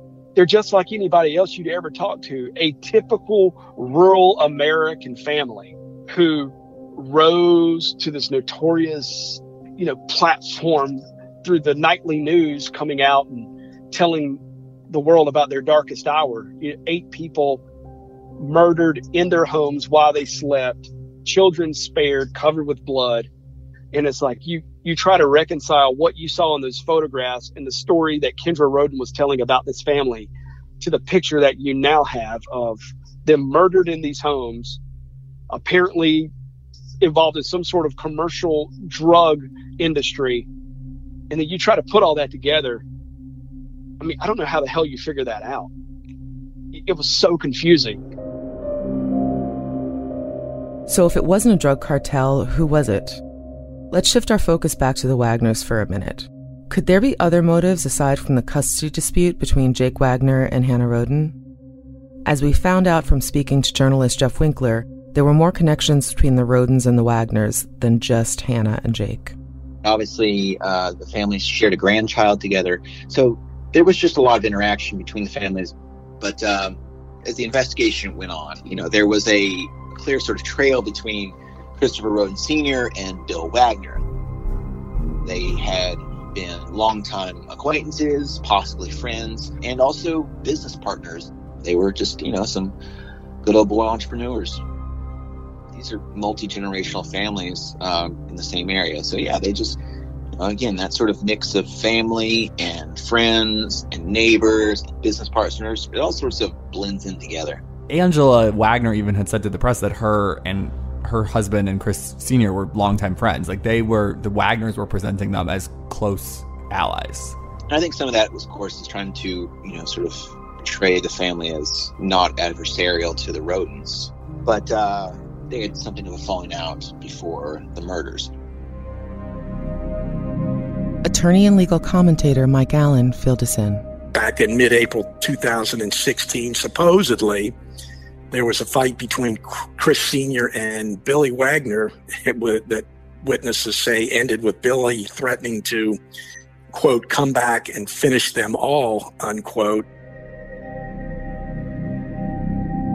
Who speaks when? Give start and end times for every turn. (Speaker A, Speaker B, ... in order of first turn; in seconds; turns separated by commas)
Speaker A: 0.3-17.6, Speaker A: 18.4-23.3, Speaker A: 23.9-30.3, Speaker A: 30.8-34.8, Speaker A: 35.5-36.3, Speaker A: 37.0-40.5, Speaker A: 41.3-42.8, Speaker A: 44.0-45.7, Speaker A: 46.7-48.0, Speaker B: 50.9-53.2, Speaker B: 53.9-61.3, Speaker B: 62.2-69.3, Speaker C: 69.8-84.0, Speaker C: 85.2-92.8, Speaker C: 93.4-94.6, Speaker C: 95.7-99.8, Speaker C: 100.4-107.6, Speaker D: 107.9-117.4, Speaker C: 117.7-128.3, Speaker B: 131.0-133.8, Speaker E: 134.1-137.5, Speaker E: 138.3-146.0, Speaker E: 146.7-149.9